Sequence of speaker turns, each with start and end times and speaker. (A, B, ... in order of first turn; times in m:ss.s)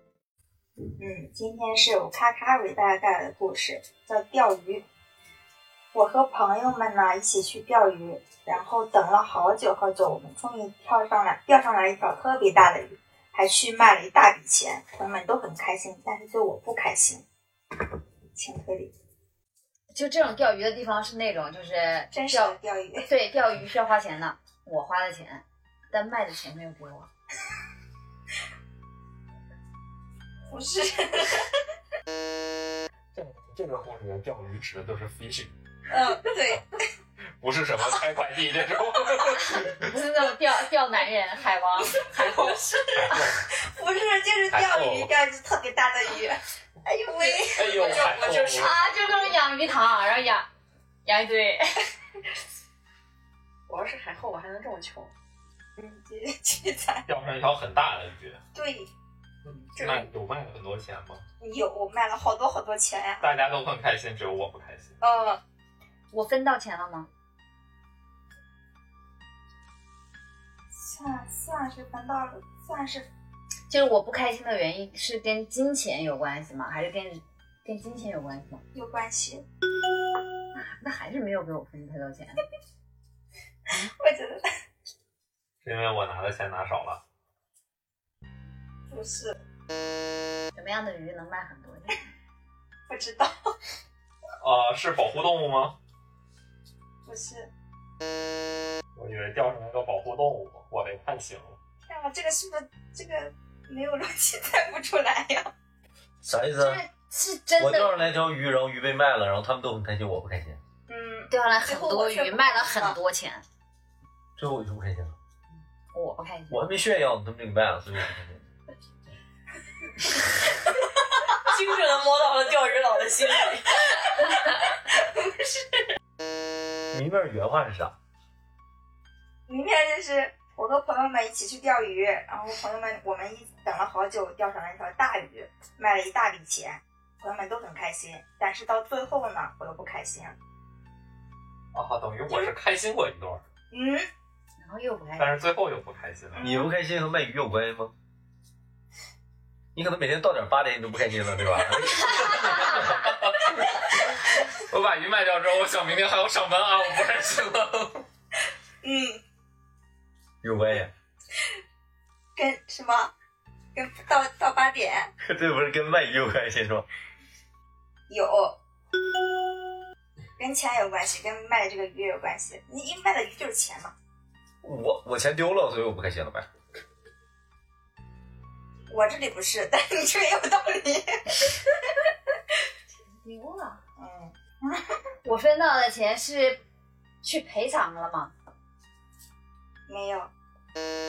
0:01.0-0:04.8 A
0:05.9-0:17.2 A
0:18.4-0:18.9 A
0:19.9-0:27.1 B
0:22.1-0:23.1 A
0:30.5-0:31.5 A
0:33.1-0:35.5 C
0:35.9-0:36.6 A
0:37.4-0:39.6 C
0:39.5-0:42.5 B
0:42.3-0:42.9 A
0:42.9-0:43.4 C
0:43.6-0:48.3 A
0:44.5-0:45.1 C
0:47.2-0:49.2 D
0:47.5-0:48.8 C
0:48.5-0:50.5 B
0:51.0-0:51.6 B
0:53.7-0:55.1 D
0:55.8-0:57.0 A
0:57.1-0:58.4 C
0:58.5-0:58.9 A
0:59.5-1:01.2 C
0:59.8-1:00.1 D
1:01.4-1:03.3 A
1:03.2-1:05.0 C
1:05.0-1:05.4 A
1:06.1-1:07.1 B
1:10.7-1:13.1 A
1:13.7-1:18.6 B
1:18.7-1:19.4 A
1:20.5-1:22.4 B
1:23.7-1:24.5 A
1:25.6-1:27.0 C
1:28.9-1:29.4 A
1:30.5-1:32.0 B
1:32.9-1:33.3 A
1:34.4-1:35.8 C
1:37.1-1:37.5 A
1:39.0-1:41.6 C
1:41.8-1:45.5 A
1:46.2-1:46.8 E
1:46.6-1:48.1 B
1:47.6-1:50.6 E
1:50.9-1:53.0 A
1:51.3-1:53.4 B
1:54.4-1:55.2 E
1:55.9-1:56.6 B
1:56.5-1:58.4 E
2:01.4-2:05.4 D
2:06.9-2:07.9 E
2:09.5-2:20.4 A
2:21.7-2:23.4 C
2:23.7-2:24.1 A
2:24.6-2:25.3 B
2:25.2-2:26.4 C
2:26.3-2:26.7 A
2:26.4-2:27.9 E
2:29.8-2:32.8 E
2:32.4-2:33.8 C
2:34.7-2:38.0 C
2:38.8-2:39.2 A
2:40.4-2:40.9 E
2:42.4-2:43.1 A
2:43.7-2:45.1 A
2:45.2-2:46.9 E
2:48.1-2:48.6 A
2:50.4-2:53.9 A
2:54.6-2:56.5 E
2:58.9-3:01.2 A
3:03.1-3:03.8 B
3:04.0-3:04.3 A
3:05.2-3:06.6 B
3:07.2-3:08.3 B
3:09.9-3:10.3 A